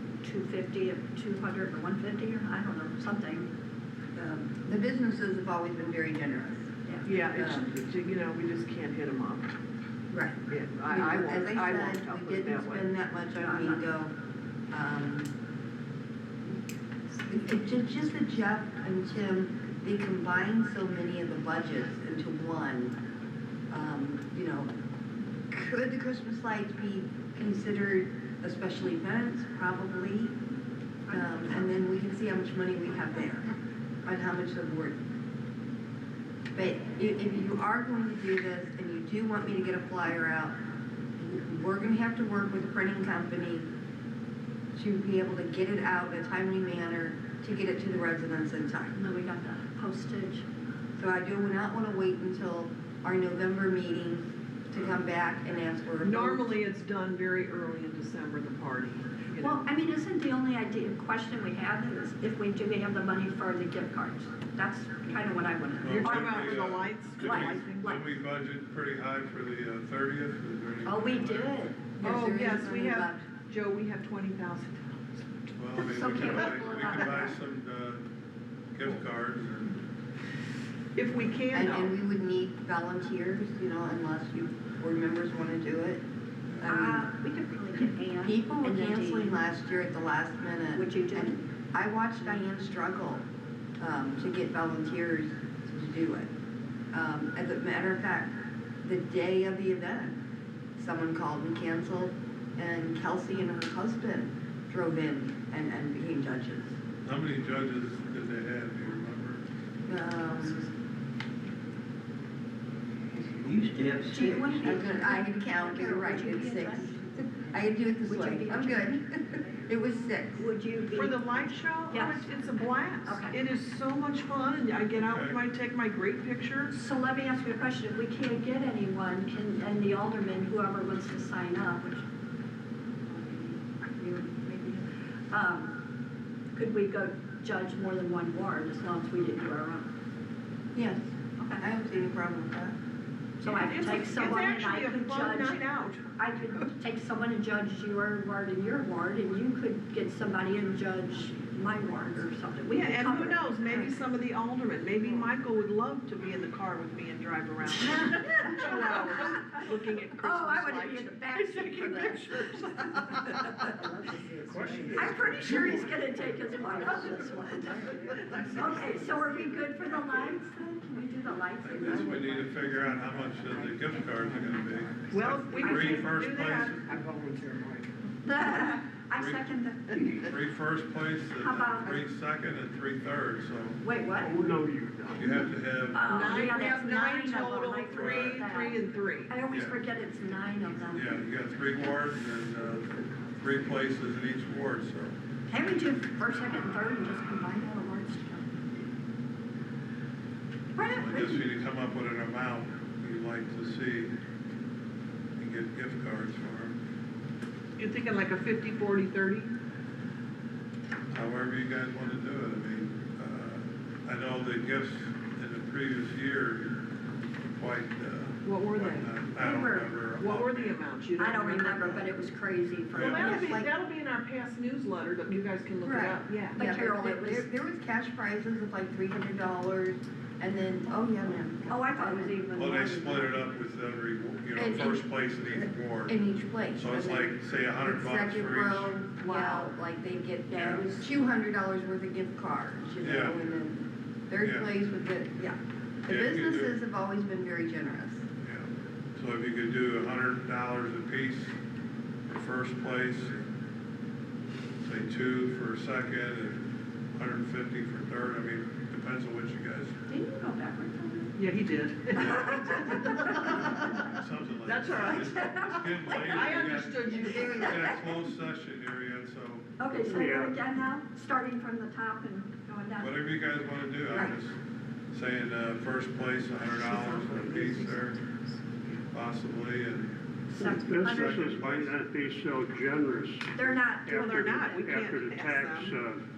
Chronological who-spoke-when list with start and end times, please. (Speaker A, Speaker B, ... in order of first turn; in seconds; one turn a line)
Speaker A: 0.2-3.5
Speaker B: 4.1-6.7
Speaker C: 7.0-9.5
Speaker B: 7.2-7.7
Speaker B: 10.1-14.1
Speaker C: 10.5-12.9
Speaker A: 13.4-13.8
Speaker B: 14.7-15.3
Speaker B: 17.2-22.9
Speaker B: 23.7-24.7
Speaker B: 25.5-30.4
Speaker A: 31.1-31.4
Speaker B: 31.1-33.5
Speaker B: 34.0-35.0
Speaker B: 36.5-40.5
Speaker B: 41.2-43.7
Speaker B: 44.7-49.0
Speaker A: 48.9-50.4
Speaker B: 51.0-56.6
Speaker D: 54.8-55.0
Speaker C: 56.0-59.7
Speaker A: 59.4-68.1
Speaker D: 65.8-71.6
Speaker C: 65.9-68.0
Speaker A: 70.8-71.8
Speaker B: 71.7-73.2
Speaker C: 72.0-75.5
Speaker D: 75.6-78.0
Speaker A: 75.8-77.4
Speaker D: 78.7-79.8
Speaker C: 80.9-81.9
Speaker B: 81.5-86.0
Speaker D: 86.5-86.8
Speaker B: 86.6-87.0
Speaker A: 86.6-89.4
Speaker B: 88.2-93.2
Speaker A: 90.7-91.4
Speaker B: 93.8-96.3
Speaker B: 96.9-100.2
Speaker B: 100.8-106.7
Speaker D: 107.0-109.4
Speaker B: 109.9-110.7
Speaker E: 113.2-114.5
Speaker A: 114.0-117.0
Speaker B: 114.1-120.5
Speaker A: 118.1-118.9
Speaker A: 120.4-123.4
Speaker C: 120.9-126.7
Speaker D: 124.9-125.4
Speaker A: 126.7-132.0
Speaker A: 133.1-135.8
Speaker A: 136.5-139.9
Speaker B: 140.7-141.1
Speaker A: 141.4-141.7
Speaker B: 141.6-142.8
Speaker A: 143.4-145.6
Speaker C: 143.4-146.6
Speaker A: 146.1-153.9
Speaker C: 152.7-163.7
Speaker A: 157.9-159.5
Speaker A: 160.2-162.2
Speaker A: 162.9-163.7
Speaker E: 164.4-165.7
Speaker C: 164.8-165.7
Speaker A: 164.9-172.5
Speaker E: 168.3-169.2
Speaker D: 171.6-176.8
Speaker C: 175.1-176.8
Speaker A: 175.7-176.0
Speaker E: 177.3-177.8
Speaker A: 178.2-180.3
Speaker D: 179.1-179.4
Speaker D: 180.1-183.8
Speaker A: 181.4-182.0
Speaker A: 183.8-184.4
Speaker F: 184.2-185.5
Speaker D: 185.1-186.2
Speaker A: 185.9-191.2
Speaker C: 186.1-189.3
Speaker D: 187.9-188.4
Speaker D: 189.5-189.8
Speaker D: 190.9-195.2
Speaker A: 195.5-198.6
Speaker A: 200.8-201.4
Speaker D: 200.9-204.1
Speaker D: 205.4-206.8
Speaker C: 207.8-209.5
Speaker D: 211.1-216.8
Speaker D: 217.5-220.8
Speaker C: 218.4-219.1
Speaker A: 219.4-219.9
Speaker C: 220.2-221.9
Speaker A: 221.2-223.6
Speaker D: 221.7-222.1
Speaker D: 222.9-223.4
Speaker C: 223.0-226.6
Speaker B: 223.1-223.7
Speaker B: 225.8-232.3
Speaker A: 226.5-227.5
Speaker A: 231.7-233.5
Speaker D: 232.5-236.2
Speaker B: 234.6-235.0
Speaker B: 236.1-248.2
Speaker D: 236.7-238.9
Speaker C: 239.2-239.7
Speaker A: 240.5-241.0
Speaker D: 240.6-240.8
Speaker D: 243.0-243.4
Speaker D: 244.4-244.7
Speaker D: 246.1-246.7
Speaker D: 248.4-251.6
Speaker D: 252.3-253.5
Speaker D: 254.8-259.9
Speaker A: 260.1-261.3
Speaker C: 261.4-264.1
Speaker D: 262.2-262.6
Speaker A: 262.2-263.5
Speaker D: 263.4-269.7
Speaker C: 264.6-265.4
Speaker A: 265.0-268.1
Speaker C: 266.1-267.7
Speaker B: 267.1-267.9
Speaker A: 269.8-273.2
Speaker F: 270.0-270.6
Speaker D: 273.0-274.6
Speaker A: 274.1-274.4
Speaker D: 275.1-278.2
Speaker D: 279.1-280.1
Speaker A: 280.5-281.6
Speaker F: 280.6-283.5
Speaker D: 281.0-282.0
Speaker A: 283.5-285.0
Speaker C: 284.1-285.9
Speaker F: 284.1-286.2